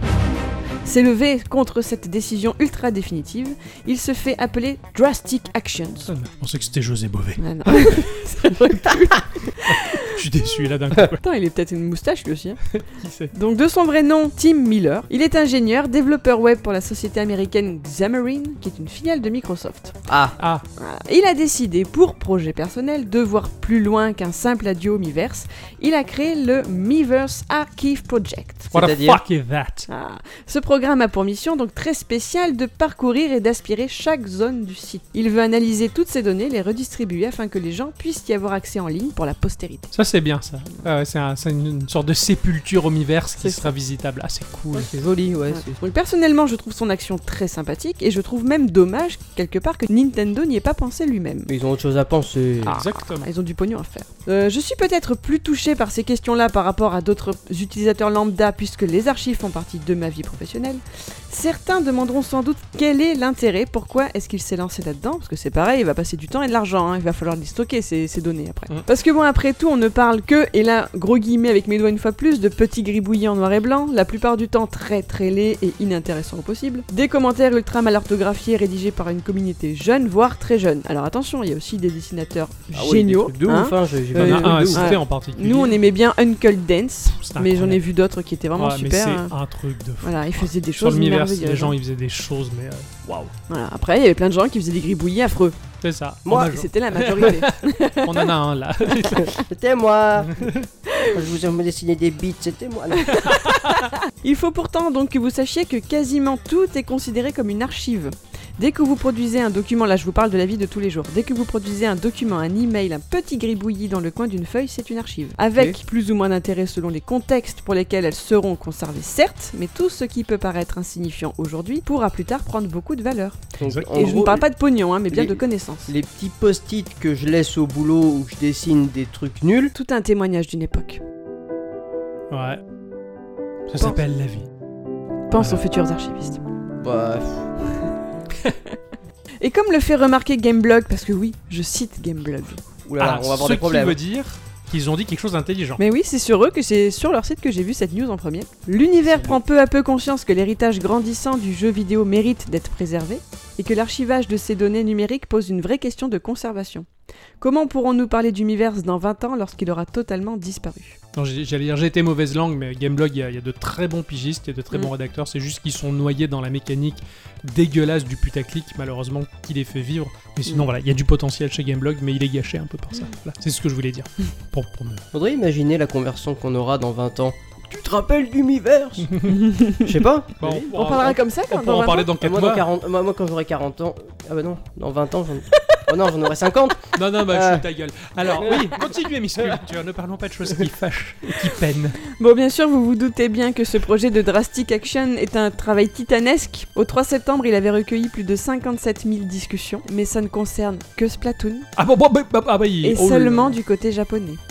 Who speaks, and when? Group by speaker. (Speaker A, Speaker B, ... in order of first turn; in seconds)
Speaker A: 0.8-6.1, 7.4-10.1, 11.2-12.6, 13.3-20.0, 20.8-28.7, 29.9-39.9, 43.4-43.7, 45.5-51.5, 53.2-89.3, 90.0-91.8, 93.5-95.5, 96.3-98.3, 100.9-101.2, 103.0-125.9, 129.7-131.0, 135.3-136.4, 139.4-142.6, 145.8-156.9, 157.4-161.0, 179.3-180.0, 180.7-182.1, 192.1-201.7, 202.8-204.4
Speaker B: 6.1-8.1, 9.6-11.2, 12.7-13.3, 20.4-20.6, 28.7-29.9, 39.9-44.9, 52.6-53.3, 84.2-85.8, 87.2-87.8, 88.5-93.3, 95.8-99.3, 100.2-100.7, 103.1-103.9, 123.6-124.1, 132.3-132.6, 133.7-134.5, 143.0-145.8, 161.2-175.0, 179.0-179.4, 180.4-182.7, 186.9-192.0, 201.8-203.6
Speaker C: 20.1-20.4, 28.7-29.2, 44.7-45.8, 51.5-52.8, 82.7-84.9, 96.2-96.5, 99.3-100.5, 101.1-103.2, 123.6-124.4, 125.1-129.7, 136.8-137.5, 142.8-144.0, 149.1-149.4, 175.1-179.1, 179.8-180.9, 182.2-187.7, 188.4-188.7